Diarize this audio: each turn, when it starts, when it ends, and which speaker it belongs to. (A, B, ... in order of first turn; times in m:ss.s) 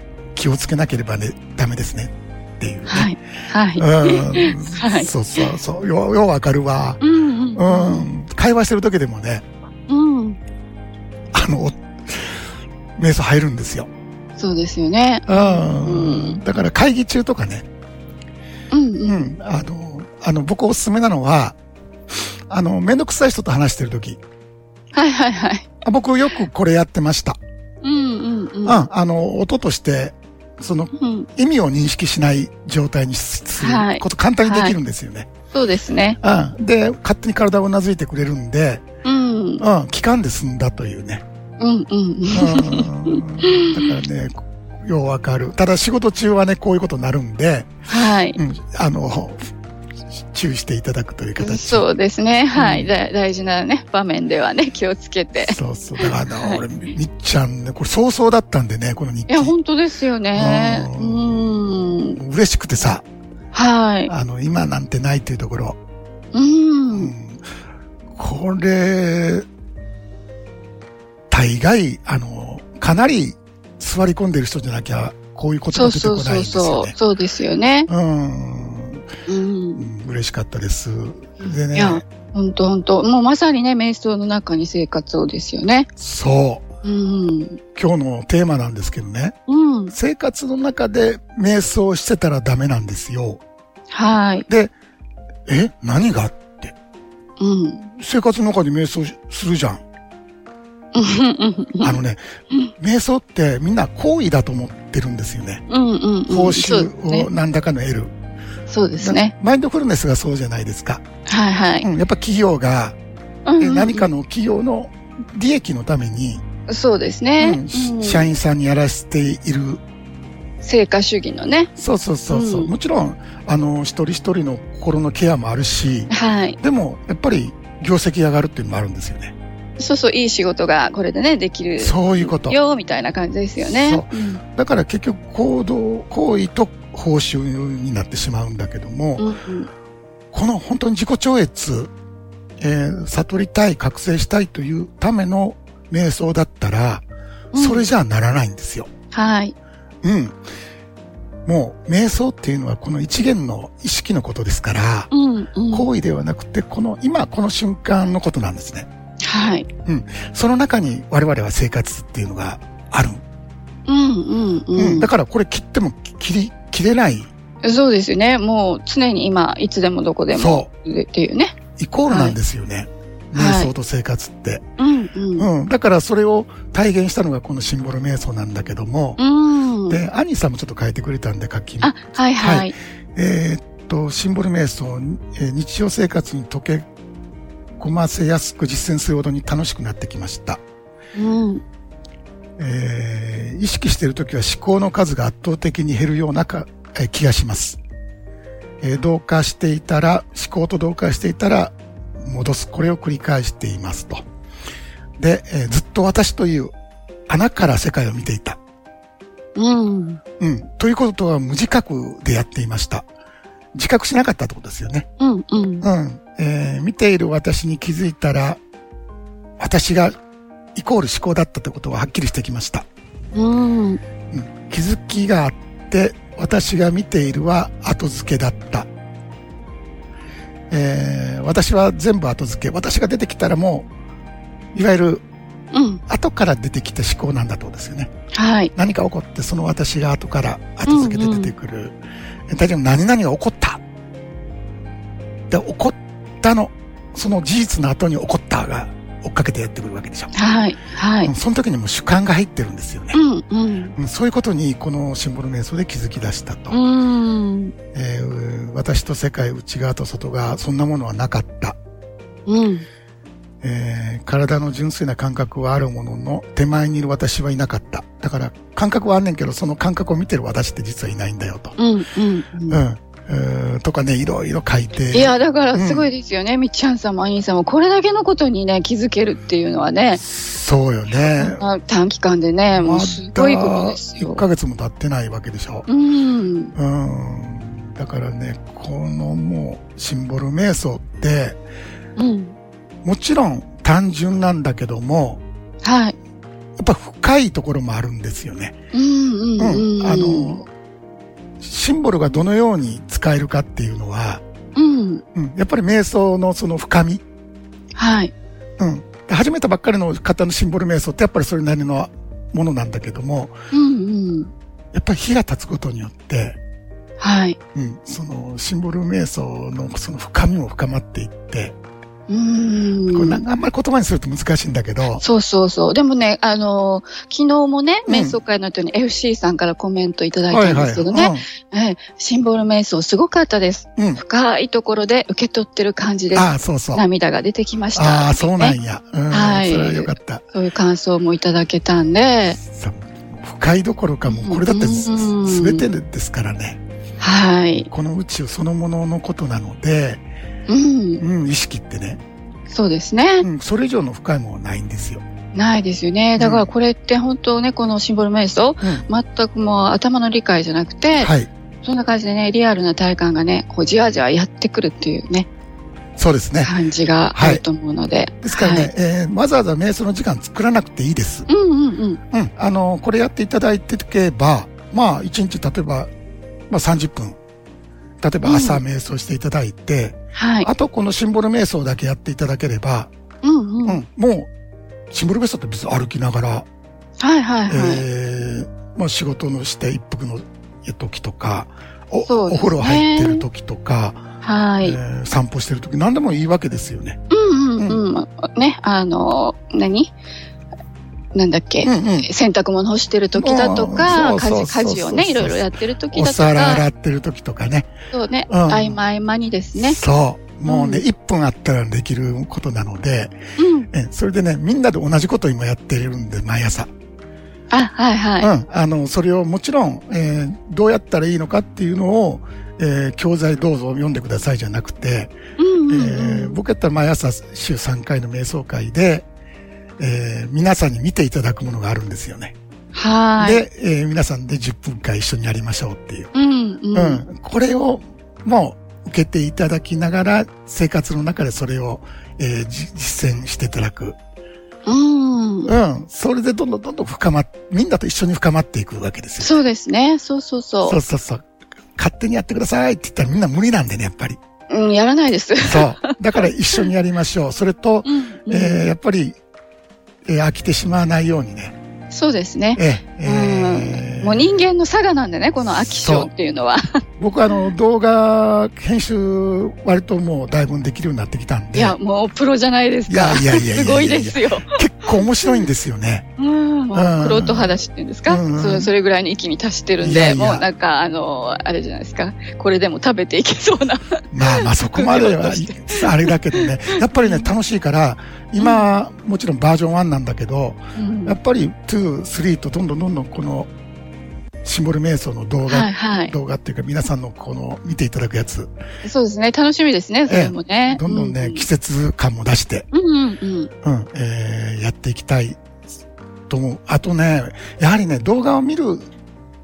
0:00.3-0:03.1 A
0:02.9-0:05.1 B
0:03.8-0:07.0 A
0:07.0-0:08.1 B
0:07.6-0:09.4 A
0:09.9-0:10.4 B
0:11.3-0:12.4 A
0:13.0-0:13.9 A
0:14.4-0:16.4 B
0:15.3-0:17.7 A
0:18.7-0:19.3 B
0:19.0-0:21.6 A
0:22.2-0:24.2 A
0:24.9-0:25.7 B
0:25.8-0:27.4 A
0:27.8-0:28.8 B
0:28.6-0:35.3 A
0:31.0-0:31.3 B
0:33.6-0:34.8 B
0:35.5-0:36.2 B
0:36.2-0:38.8 A
0:39.0-0:39.6 B
0:39.6-0:41.2 A
0:41.6-0:43.9 B
0:42.3-0:47.7 A
0:47.9-0:48.4 B
0:48.4-0:49.5 A
0:50.1-0:51.8 A
0:51.4-0:56.6 B
0:52.5-0:52.9 A
0:55.4-0:59.5 A
0:59.3-1:02.2 B
1:00.4-1:03.0 A
1:03.5-1:04.1 B
1:04.1-1:05.8 A
1:06.3-1:07.1 B
1:06.9-1:07.4 A
1:08.1-1:09.5 A
1:11.3-1:17.0 A
1:15.7-1:17.9 B
1:17.9-1:19.1 A
1:19.3-1:19.8 B
1:19.8-1:22.0 A
1:21.7-1:25.9 B
1:26.0-1:26.7 A
1:26.8-1:27.6 B
1:27.8-1:29.4 A
1:29.5-1:29.9 B
1:29.9-1:33.4 A
1:33.9-1:34.5 B
1:34.5-1:34.7 A
1:35.5-1:36.8 A
1:37.4-1:37.9 B
1:38.0-1:39.8 A
1:40.9-1:42.0 B
1:41.8-1:45.6 A
1:45.7-1:47.3 B
1:46.3-1:48.1 A
1:48.7-1:49.3 B
1:49.0-1:51.0 A
1:51.3-1:51.9 B
1:51.8-1:53.0 A
1:53.5-1:54.1 B
1:53.6-1:56.4 A
1:56.7-1:58.3 B
1:57.4-1:59.8 A
2:00.6-2:01.7 B
2:01.8-2:09.4 A
2:02.3-2:02.7 B
2:06.1-2:06.6 B
2:09.8-2:14.4 B
2:11.8-2:12.6 A
2:13.6-2:19.3 A
2:19.2-2:19.7 B
2:20.3-2:21.9 A
2:22.6-2:28.9 A
2:27.5-2:27.9 B
2:29.1-2:29.5 B
2:30.0-2:30.4 A
2:31.5-2:35.1 A
2:35.1-2:35.9 B
2:35.7-2:38.9 A
2:39.2-2:39.7 B
2:39.8-2:43.2 A
2:43.9-2:45.1 B
2:44.8-2:47.3 A
2:47.6-2:51.6 B
2:50.3-2:50.7 A
2:51.8-2:54.6 A
2:52.1-2:52.4 B
2:53.4-2:53.7 B
2:54.8-2:55.5 B
2:55.4-2:59.2 A
2:59.2-3:00.0 B
2:59.9-3:06.9 A
3:01.8-3:02.7 B
3:07.8-3:10.6 A
3:11.2-3:11.6 B
3:12.6-3:17.8 A
3:18.8-3:24.2 A
3:25.2-3:26.7 A
3:27.3-3:28.6 A
3:29.6-3:30.2 B
3:30.4-3:33.1 A
3:33.7-3:35.1 A
3:35.2-3:35.8 B
3:35.8-3:38.6 A
3:39.6-3:40.2 A
3:40.8-3:42.8 A
3:43.3-3:44.0 B
3:44.3-3:48.9 A
3:50.7-3:53.9 A
3:54.7-3:55.2 A
3:55.7-3:56.0 B
3:56.1-3:58.1 A
3:58.3-3:58.7 B
3:58.8-4:02.0 A
4:00.9-4:01.5 B
4:02.5-4:03.8 A
4:05.5-4:10.3 A
4:10.3-4:11.3 B
4:11.2-4:13.2 A
4:13.1-4:14.0 B
4:14.0-4:16.8 A
4:16.7-4:17.7 B
4:17.9-4:21.8 A
4:22.5-4:22.8 B
4:23.6-4:31.8 A
4:31.8-4:32.8 B
4:32.7-4:36.1 A
4:35.1-4:40.2 B
4:40.2-4:41.7 A
4:41.2-4:44.4 B
4:42.7-4:45.8 A
4:45.9-4:46.8 B
4:46.8-4:51.6 A
4:52.2-4:52.5 B
4:53.0-4:55.4 A
4:55.8-4:56.2 B
4:56.8-4:58.8 A
4:58.9-5:00.6 B
4:59.6-5:00.7 A
5:01.6-5:04.4 A
5:04.8-5:05.2 B
5:05.3-5:07.2 A
5:08.0-5:08.3 B
5:08.8-5:13.6 A
5:13.7-5:14.5 B
5:14.9-5:16.6 A
5:17.2-5:17.6 B
5:17.8-5:21.8 A
5:22.3-5:23.4 B
5:23.1-5:25.2 A
5:25.2-5:38.8 B
5:28.1-5:28.4 A
5:30.5-5:31.4 A
5:36.3-5:37.0 A
5:38.0-5:40.4 A
5:39.3-5:42.6 B
5:42.6-5:46.8 A
5:44.3-5:45.9 B
5:47.2-5:47.9 B
5:47.9-5:50.2 A
5:50.7-5:51.2 B
5:51.2-5:52.2 A
5:52.7-5:53.5 B
5:53.4-5:55.2 A
5:55.5-6:01.3 B
5:56.4-5:56.7 A
6:01.2-6:01.5 A
6:01.8-6:05.5 B
6:06.2-6:06.7 A
6:06.6-6:08.9 B
6:07.3-6:07.6 A
6:08.4-6:11.5 A
6:11.5-6:12.2 B
6:12.3-6:16.1 A
6:16.7-6:17.4 A
6:18.2-6:23.1 A
6:18.4-6:18.8 B
6:20.3-6:20.7 B
6:23.4-6:24.0 B
6:23.8-6:24.5 A
6:25.1-6:26.7 A
6:27.2-6:28.0 B
6:27.7-6:34.3 A
6:32.3-6:33.4 B
6:34.4-6:35.0 B
6:34.8-6:37.2 A
6:37.3-6:40.2 B
6:41.3-6:46.8 B
6:41.8-6:42.3 A
6:43.3-6:47.9 A
6:48.1-6:50.0 B
6:48.5-6:49.0 A
6:49.8-6:53.4 A
6:50.7-6:51.0 B
6:53.6-6:53.9 B
6:53.9-6:56.9 A
6:57.7-6:58.5 B
6:58.4-7:05.4 A
7:05.6-7:06.6 B
7:05.9-7:09.3 A
7:10.0-7:12.6 A
7:12.9-7:13.6 B
7:13.4-7:16.3 A
7:16.3-7:17.2 B
7:16.9-7:24.2 A
7:24.8-7:25.7 B
7:25.7-7:29.6 A
7:29.4-7:31.0 B
7:30.8-7:34.4 A
7:34.7-7:36.2 B
7:35.6-7:39.4 A
7:38.0-7:38.8 B
7:40.2-7:41.8 A
7:42.1-7:47.0 B
7:42.8-7:44.6 A
7:45.8-7:46.3 A
7:47.2-7:52.0 A
7:51.7-7:55.6 B
7:53.1-7:56.3 A
7:56.4-8:07.5 B
7:56.9-7:58.9 A
8:00.0-8:00.6 A
8:04.3-8:13.7 A
8:08.6-8:08.9 B
8:11.0-8:11.4 B
8:14.6-8:18.7 A
8:15.7-8:16.3 B
8:19.0-8:21.7 B
8:20.3-8:22.9 A
8:22.9-8:23.7 B
8:23.8-8:25.6 A
8:26.5-8:29.1 A